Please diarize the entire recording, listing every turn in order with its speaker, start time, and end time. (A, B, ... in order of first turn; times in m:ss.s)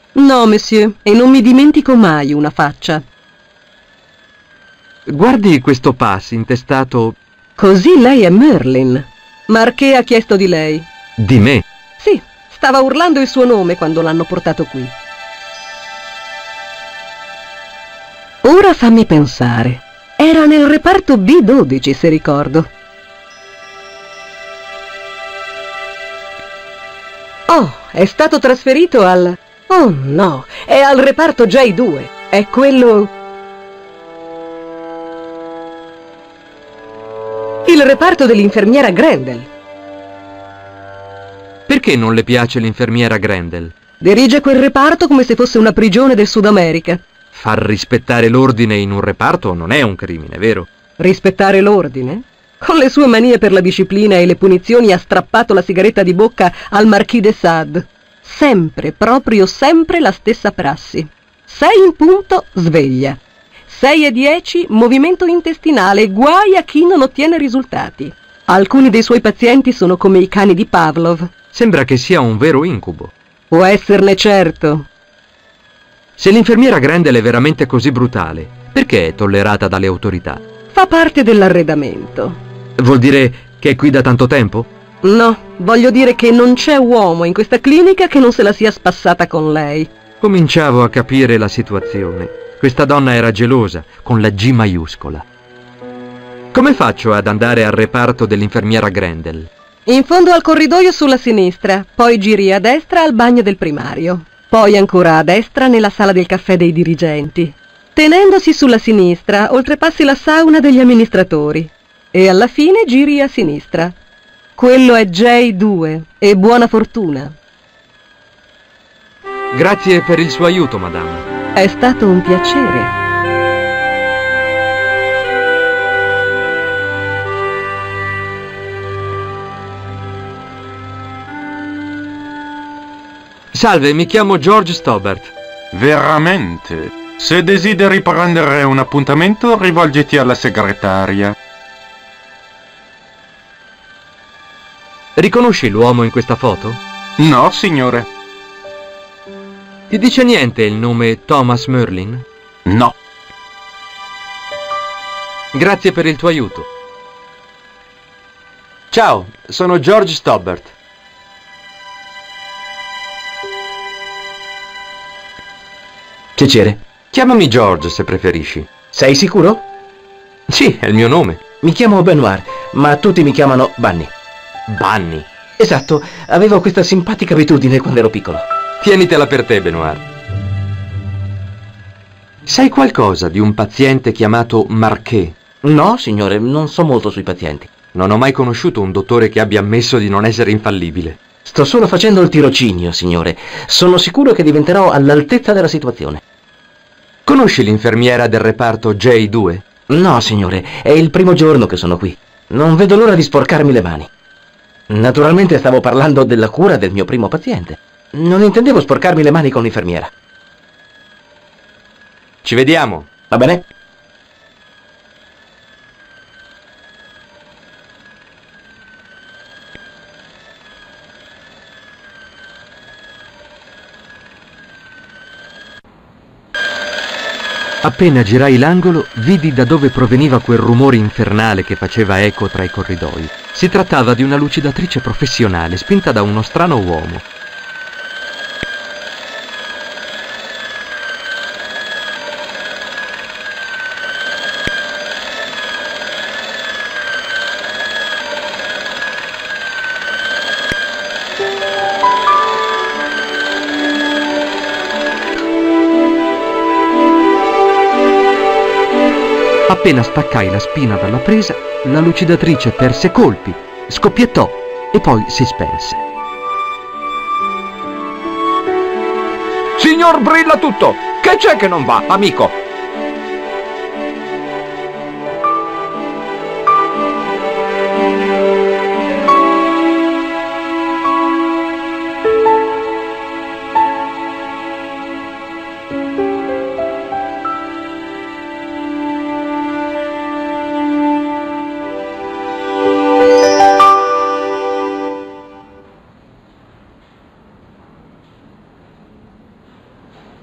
0:00.2-0:03.0 A
0:05.1-0:07.2 B
0:07.6-0:10.8 A
0:11.2-0:11.6 B
0:12.0-0:14.9 A
0:18.4-0:22.7 A
0:27.5-0:33.1 A
0:37.6-0:39.5 A
0:41.7-0:43.7 B
0:44.0-0:47.0 A
0:47.3-0:50.7 B
0:51.0-1:11.3 A
1:11.5-1:13.1 B
1:13.5-1:14.9 A
1:16.2-1:20.4 B
1:20.7-1:22.4 A
1:22.8-1:24.7 B
1:25.0-1:29.9 A
1:30.2-1:35.2 B
1:36.5-1:39.5 B
1:39.9-1:54.0 A
1:54.6-1:57.4 A
1:59.5-2:01.2 B
2:01.6-2:02.9 A
2:13.5-2:15.3 B
2:15.7-2:21.3 C
2:25.2-2:26.8 B
2:27.2-2:28.1 C
2:29.9-2:32.2 B
2:32.6-2:32.9 C
2:35.5-2:36.7 B
2:38.9-2:40.7 B
2:46.4-2:46.8 D
2:47.1-2:48.7 B
2:48.9-2:49.6 D
2:50.5-2:51.4 B
2:51.6-2:54.1 D
2:54.7-2:55.3 B
2:55.6-2:58.4 D
2:58.8-3:00.0 B
3:02.5-3:05.4 B
3:05.6-3:07.7 D
3:07.9-3:11.2 B
3:11.4-3:16.2 D
3:17.2-3:19.6 B
3:19.9-3:24.1 D
3:24.9-3:30.1 D
3:32.4-3:33.1 B
3:33.3-3:33.6 D
3:47.8-3:57.2 B
4:19.7-4:26.0 B
4:29.8-4:32.5 E